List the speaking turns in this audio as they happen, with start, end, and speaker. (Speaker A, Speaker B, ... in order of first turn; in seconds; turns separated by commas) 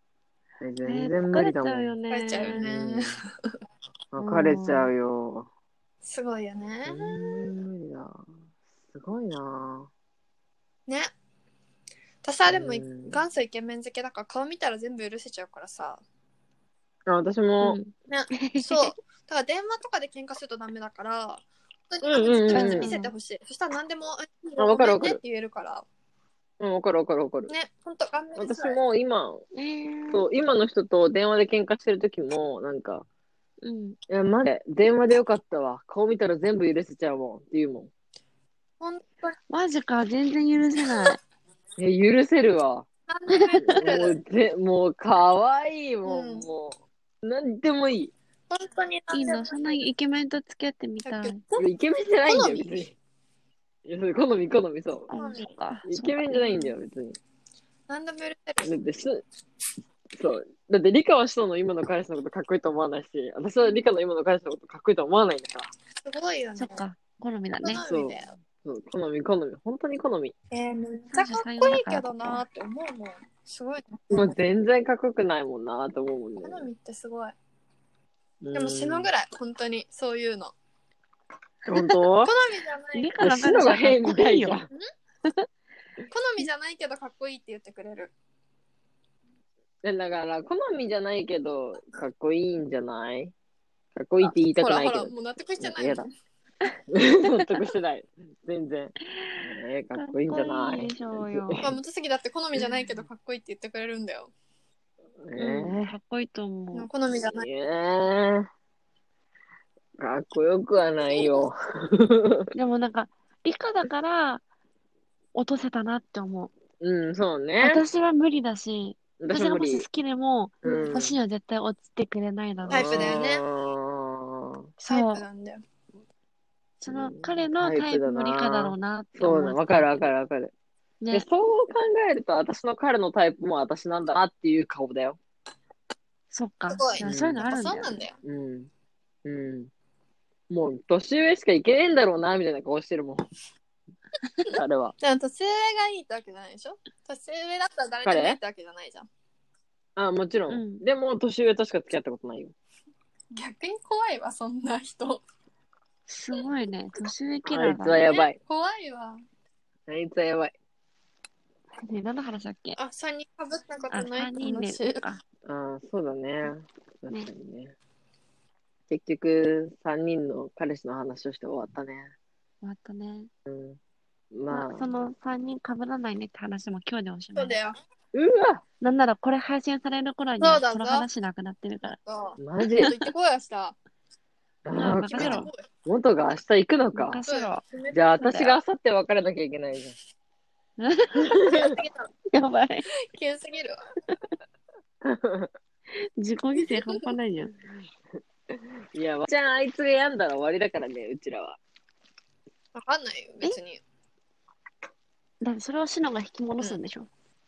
Speaker A: 0.6-1.9, Speaker B: 0.8-2.6, Speaker C: 2.1-3.2, Speaker A: 2.6-3.1, Speaker A: 4.1-5.5, Speaker B: 4.2-4.9, Speaker C: 6.0-7.5, Speaker A: 6.8-8.2, Speaker A: 8.9-9.9, Speaker C: 12.2-16.0, Speaker A: 12.5-13.2, Speaker A: 17.1-17.8, Speaker B: 17.6-18.9, Speaker C: 18.1-25.8, Speaker A: 22.0-22.9, Speaker B: 22.5-23.1, Speaker A: 24.6-25.2, Speaker A: 26.6-27.5, Speaker C: 27.5-28.8, Speaker A: 28.4-29.4, Speaker B: 29.5-30.2, Speaker A: 30.1-33.0, Speaker B: 33.6-34.0, Speaker A: 34.1-37.9, Speaker C: 38.8-39.4, Speaker B: 39.5-41.2, Speaker A: 41.8-42.9, Speaker C: 43.1-44.2, Speaker B: 43.3-43.8, Speaker A: 43.6-48.1, Speaker C: 46.0-46.5, Speaker C: 48.5-49.8, Speaker B: 49.1-51.4, Speaker C: 51.0-51.6, Speaker A: 51.6-53.0, Speaker C: 52.2-52.8, Speaker A: 53.9-55.1, Speaker B: 55.1-56.6, Speaker C: 55.1-55.4, Speaker A: 55.9-57.2, Speaker C: 57.9-58.7, Speaker A: 58.6-59.2, Speaker A: 60.1-65.7, Speaker C: 66.0-66.8, Speaker B: 66.5-67.8, Speaker C: 67.6-68.3, Speaker A: 67.8-70.3, Speaker C: 70.5-74.3, Speaker B: 71.1-72.4, Speaker A: 74.1-76.7, Speaker C: 76.4-77.3, Speaker A: 78.4-79.1, Speaker C: 78.5-80.5, Speaker A: 81.7-82.3, Speaker B: 81.7-82.0, Speaker C: 82.2-83.1, Speaker B: 82.9-84.6, Speaker A: 83.2-84.7, Speaker C: 86.1-88.1, Speaker A: 89.8-93.3, Speaker A: 93.9-96.0, Speaker C: 94.2-96.1, Speaker A: 96.9-101.7, Speaker B: 99.2-101.6, Speaker C: 101.6-104.3, Speaker A: 105.2-105.9, Speaker B: 105.4-106.9, Speaker C: 106.7-107.5, Speaker A: 107.3-108.5, Speaker A: 110.0-112.4, Speaker B: 112.5-114.4, Speaker B: 115.3-116.5, Speaker A: 116.8-117.8, Speaker B: 117.6-123.2, Speaker A: 119.2-119.8, Speaker A: 120.6-121.2, Speaker C: 120.6-121.0, Speaker C: 122.7-123.4, Speaker A: 122.7-124.7, Speaker C: 124.8-125.6, Speaker B: 124.9-125.2, Speaker B: 126.8-130.1, Speaker A: 126.8-130.5, Speaker B: 131.0-131.2, Speaker A: 131.1-135.2, Speaker B: 136.3-138.0, Speaker C: 136.7-138.2, Speaker A: 137.0-137.4, Speaker A: 138.2-138.7, Speaker A: 139.2-139.7, Speaker A: 140.5-143.2, Speaker A: 144.5-144.9, Speaker C: 145.0-149.1, Speaker A: 148.0-148.4, Speaker A: 149.9-152.5, Speaker B: 150.5-150.8, Speaker C: 153.3-155.2, Speaker B: 156.1-158.1, Speaker A: 157.4-158.4, Speaker C: 158.1-159.2, Speaker A: 159.9-160.5, Speaker B: 161.8-162.8, Speaker C: 162.8-165.1, Speaker B: 163.9-165.2, Speaker A: 165.4-167.7, Speaker A: 168.9-172.1, Speaker B: 172.6-173.3, Speaker A: 173.4-173.8, Speaker A: 174.3-174.9, Speaker B: 174.5-177.6, Speaker C: 177.3-177.8, Speaker A: 178.1-178.6, Speaker B: 178.8-182.0, Speaker C: 180.4-181.1, Speaker C: 181.8-183.8, Speaker A: 182.4-182.9, Speaker A: 184.6-187.2, Speaker B: 184.7-185.5, Speaker C: 184.9-185.6, Speaker B: 186.9-187.6, Speaker C: 187.2-188.4, Speaker A: 187.9-189.9, Speaker B: 188.2-188.6, Speaker B: 190.8-191.3, Speaker C: 191.4-192.1, Speaker B: 192.3-192.9, Speaker C: 193.1-193.8, Speaker A: 195.0-195.5, Speaker B: 196.2-197.6, Speaker C: 196.6-196.9, Speaker A: 198.9-201.6, Speaker C: 202.7-203.8, Speaker B: 205.4-207.1